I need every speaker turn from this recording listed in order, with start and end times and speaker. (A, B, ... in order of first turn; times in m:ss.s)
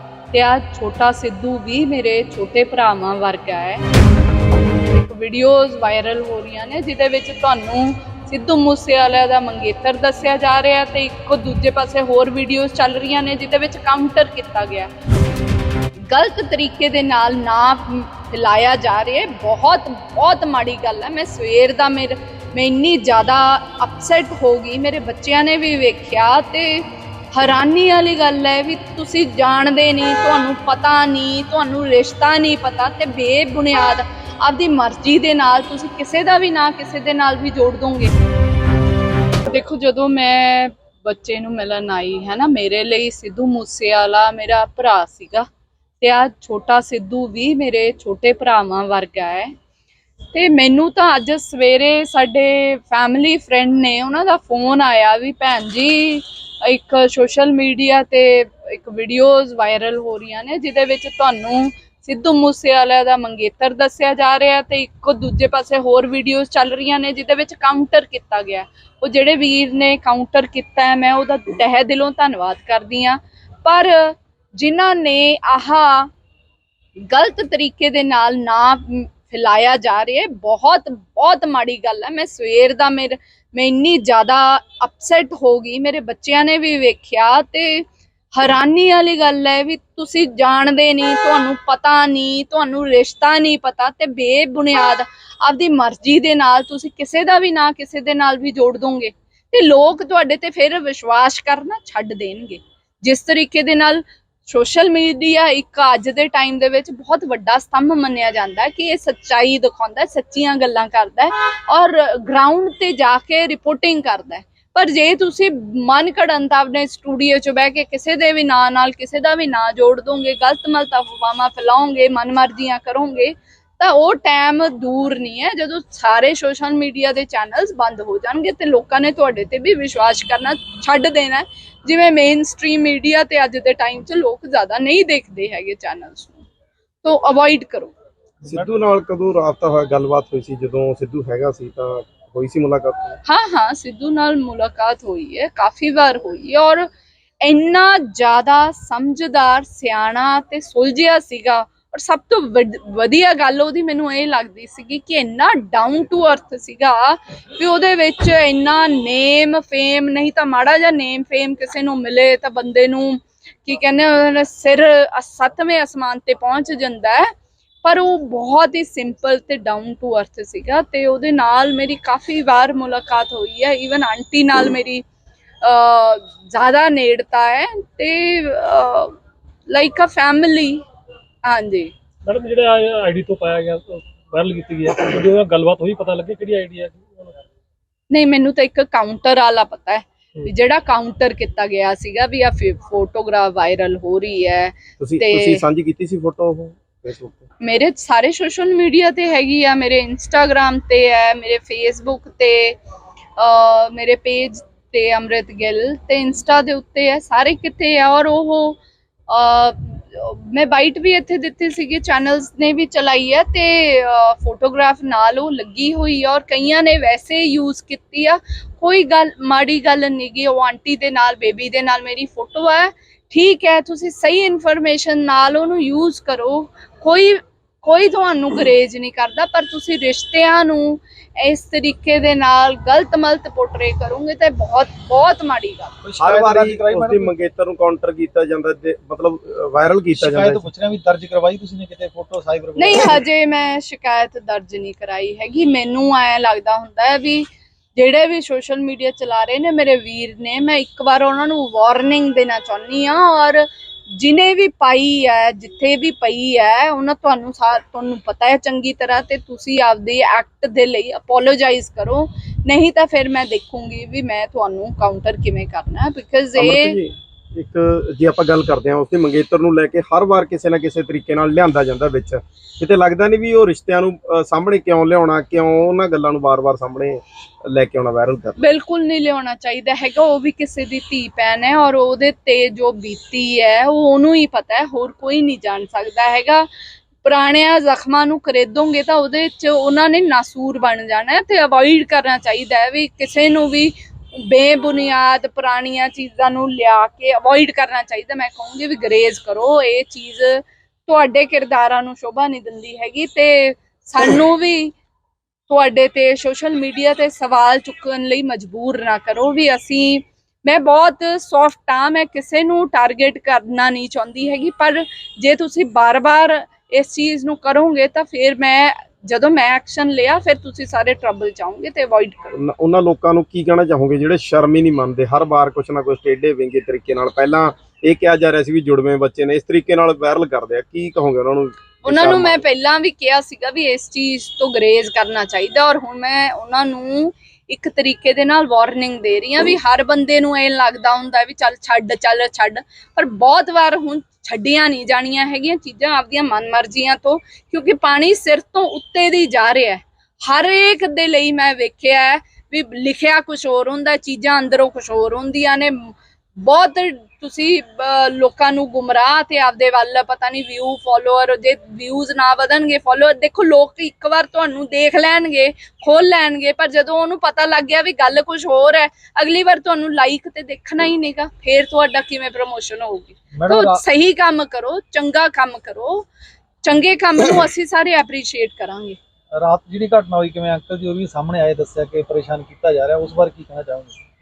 0:00.3-0:03.8 A
0:04.9-0:14.9 A
0:16.1-0:38.1 A
0:39.5-0:45.5 A
0:46.0-0:49.5 A
0:50.3-1:16.1 A
1:17.1-2:16.5 A
2:17.0-2:17.9 A
2:18.4-2:18.7 B
2:18.5-2:23.2 C
2:23.3-2:26.9 A
2:27.4-2:47.3 A
2:47.8-2:55.0 A
2:55.6-2:59.2 A
2:59.7-3:00.8 A
3:01.4-3:01.9 A
3:02.3-3:07.3 D
3:08.1-3:15.6 A
3:15.0-3:17.5 C
3:17.6-3:22.8 A
3:23.4-3:28.8 A
3:29.3-3:55.9 A
3:56.0-3:57.3 B
3:56.2-4:00.7 C
4:00.1-4:03.2 B
4:02.8-4:27.0 A
4:26.6-4:38.6 C
4:38.6-4:46.7 A
4:47.2-5:04.9 A
5:05.7-5:22.5 A
5:22.5-5:32.6 C
5:32.0-6:16.3 A
6:13.6-6:14.0 B
6:16.8-6:19.2 A
6:19.5-6:24.2 B